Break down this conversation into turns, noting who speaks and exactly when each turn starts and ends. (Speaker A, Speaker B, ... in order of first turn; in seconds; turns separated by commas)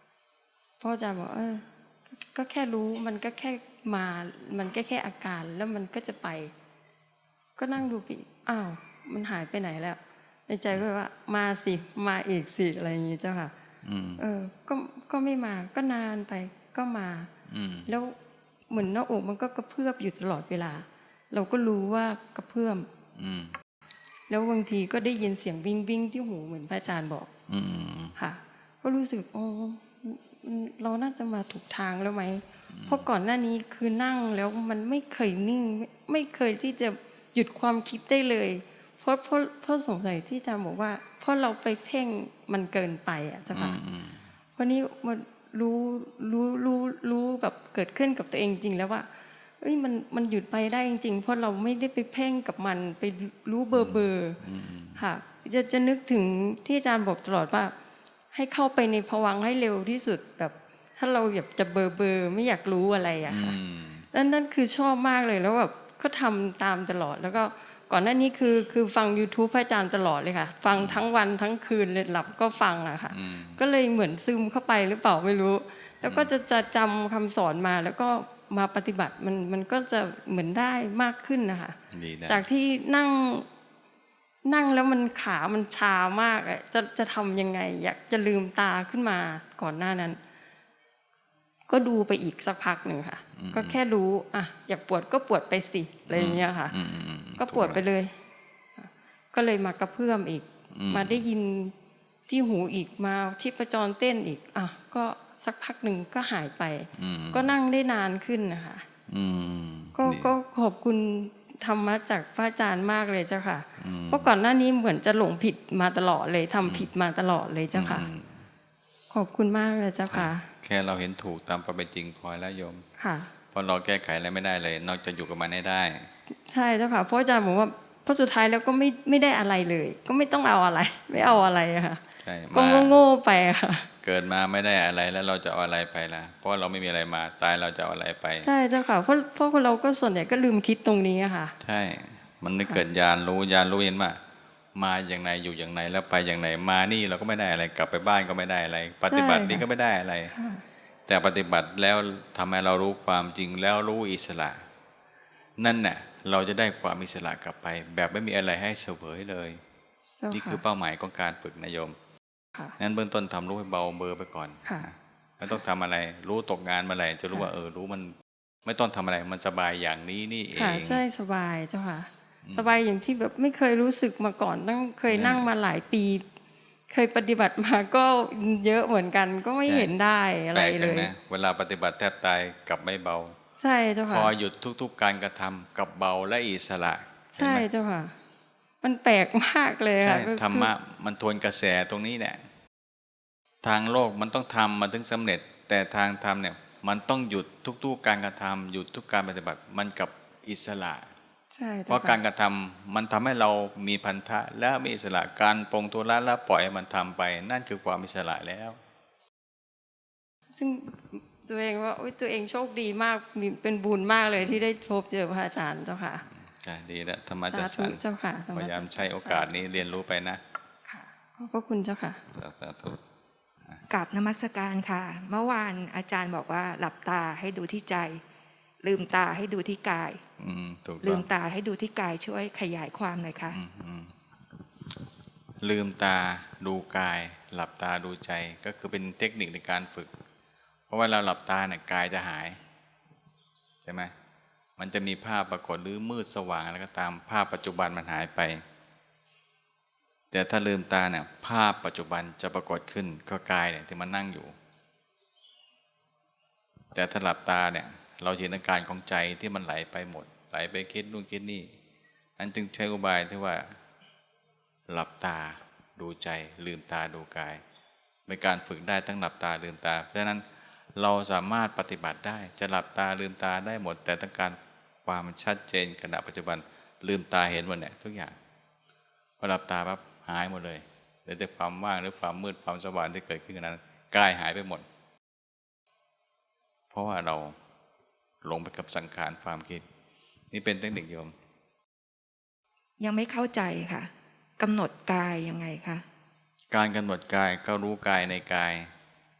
Speaker A: 0.8-6.5, Speaker A: 7.6-13.5, Speaker B: 13.8-14.2, Speaker A: 14.2-17.3, Speaker B: 17.5-17.9, Speaker A: 17.9-18.1, Speaker A: 18.7-22.9, Speaker B: 23.2-23.6, Speaker A: 24.3-27.3, Speaker B: 27.5-28.1, Speaker A: 28.2-43.8, Speaker B: 32.7-33.1, Speaker B: 43.5-44.3, Speaker A: 44.6-49.1, Speaker A: 49.6-54.4, Speaker B: 53.7-55.0, Speaker A: 55.0-57.7, Speaker A: 58.3-63.6, Speaker B: 63.3-64.1, Speaker A: 64.1-83.5, Speaker B: 70.8-71.0, Speaker B: 73.1-73.6, Speaker B: 81.9-82.4, Speaker A: 84.5-90.2, Speaker A: 91.7-96.8, Speaker B: 93.4-93.8, Speaker B: 96.1-97.8, Speaker A: 97.4-98.1, Speaker A: 98.8-101.7, Speaker B: 100.7-101.2, Speaker A: 102.3-108.9, Speaker B: 106.9-107.5, Speaker B: 109.1-110.3, Speaker A: 110.0-118.1, Speaker B: 113.8-114.3, Speaker B: 116.6-116.9, Speaker B: 117.7-118.5, Speaker A: 119.1-120.5, Speaker B: 120.1-122.8, Speaker A: 123.0-123.3, Speaker B: 123.5-126.1, Speaker A: 126.3-132.0, Speaker B: 132.2-133.0, Speaker A: 132.5-133.9, Speaker B: 134.0-138.5, Speaker A: 138.4-141.6, Speaker B: 141.6-144.2, Speaker B: 144.8-150.3, Speaker A: 149.1-149.7, Speaker A: 150.3-150.6, Speaker B: 151.1-154.7, Speaker B: 155.6-159.6, Speaker A: 160.2-160.6, Speaker B: 160.3-162.0, Speaker B: 162.8-171.0, Speaker A: 170.6-176.2, Speaker B: 172.4-172.8, Speaker B: 175.1-175.5, Speaker A: 176.9-181.1, Speaker B: 179.7-179.9, Speaker B: 180.5-183.4, Speaker A: 183.6-184.3, Speaker B: 184.1-187.7, Speaker A: 187.3-188.2, Speaker A: 188.8-190.7, Speaker B: 190.0-192.4, Speaker B: 193.6-201.1, Speaker A: 201.5-202.2, Speaker B: 201.9-208.8, Speaker A: 210.5-216.2, Speaker B: 214.4-214.6, Speaker B: 216.3-218.0, Speaker A: 217.5-219.7, Speaker B: 218.5-220.4, Speaker A: 220.9-222.2, Speaker B: 222.3-223.0, Speaker C: 223.9-228.2, Speaker C: 228.8-230.2, Speaker B: 230.4-231.3, Speaker C: 231.0-233.6, Speaker B: 233.5-234.2, Speaker B: 235.6-240.1, Speaker B: 240.9-242.6, Speaker B: 243.8-244.1, Speaker B: 244.8-248.6, Speaker B: 250.3-254.6, Speaker B: 256.9-261.7, Speaker B: 262.4-263.8, Speaker B: 264.9-267.6, Speaker B: 268.3-278.4, Speaker B: 279.4-284.9, Speaker B: 286.9-287.6, Speaker B: 288.4-289.9, Speaker B: 290.5-291.4, Speaker C: 293.0-296.0, Speaker B: 296.7-298.9